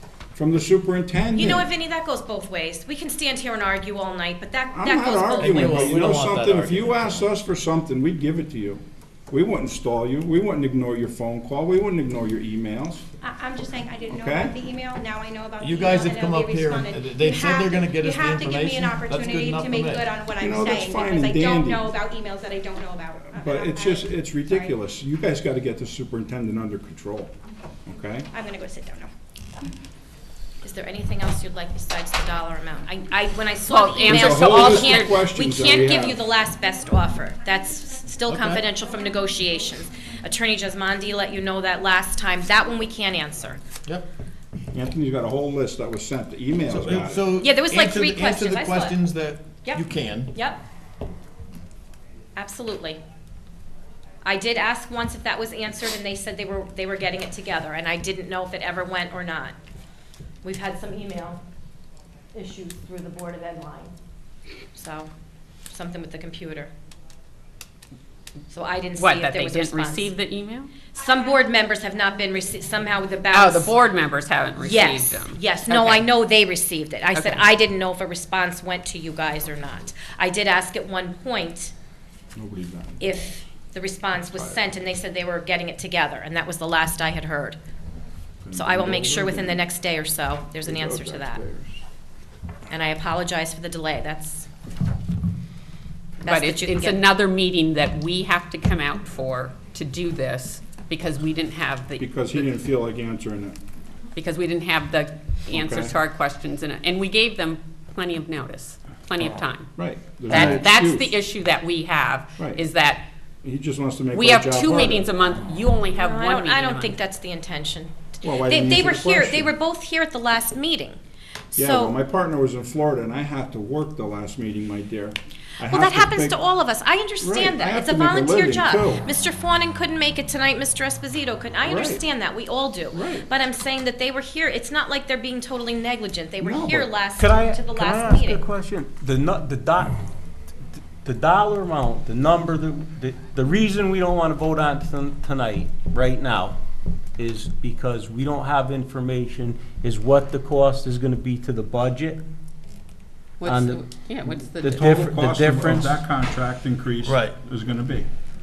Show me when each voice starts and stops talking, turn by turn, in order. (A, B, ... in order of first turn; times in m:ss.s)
0:00.3-0:01.6 A
0:01.3-0:06.0 B
0:04.7-0:13.0 A
0:05.3-0:07.0 C
0:13.2-0:24.7 D
0:14.1-0:14.5 A
0:15.6-0:20.1 C
0:20.4-0:22.0 A
0:23.3-0:27.3 A
0:27.8-0:28.3 A
0:28.3-0:29.1 D
0:30.6-0:43.6 B
0:33.7-0:35.2 E
0:34.0-0:36.2 A
0:38.2-0:38.6 C
0:44.7-0:47.3 A
0:46.7-0:50.3 C
0:47.4-0:49.0 B
0:49.6-0:50.6 B
0:52.4-0:53.0 B
0:54.2-0:59.5 B
1:00.4-1:01.4 B
1:02.3-1:03.9 B
1:04.7-1:05.1 B
1:05.7-1:06.7 B
1:08.5-1:10.1 B
1:09.0-1:10.7 E
1:10.9-1:13.7 B
1:13.3-1:16.0 E
1:14.6-1:21.7 B
1:17.1-1:17.4 E
1:22.3-1:23.0 A
1:23.0-1:27.6 B
1:24.2-1:24.6 A
1:28.4-1:29.6 A
1:28.5-1:31.4 B
1:30.6-1:31.8 A
1:32.7-1:34.5 B
1:36.2-1:37.0 B
1:36.2-1:42.3 E
1:42.0-1:43.6 A
1:44.2-1:53.0 E
1:45.5-1:46.0 A
1:49.7-1:51.1 A
1:53.4-1:55.7 A
1:54.1-1:57.0 E
1:55.9-2:01.0 B
1:58.2-1:59.5 A
2:01.5-2:02.0 B
2:01.5-2:06.4 A
2:05.6-2:18.4 B
2:07.2-2:09.0 A
2:11.6-2:12.0 A
2:12.9-2:13.2 A
2:16.4-2:16.9 A
2:17.2-2:20.0 F
2:21.0-2:26.6 F
2:27.2-2:32.2 F
2:33.4-2:34.9 E
2:33.4-2:33.8 F
2:34.5-2:38.1 A
2:34.5-2:36.0 F
2:37.0-2:37.3 C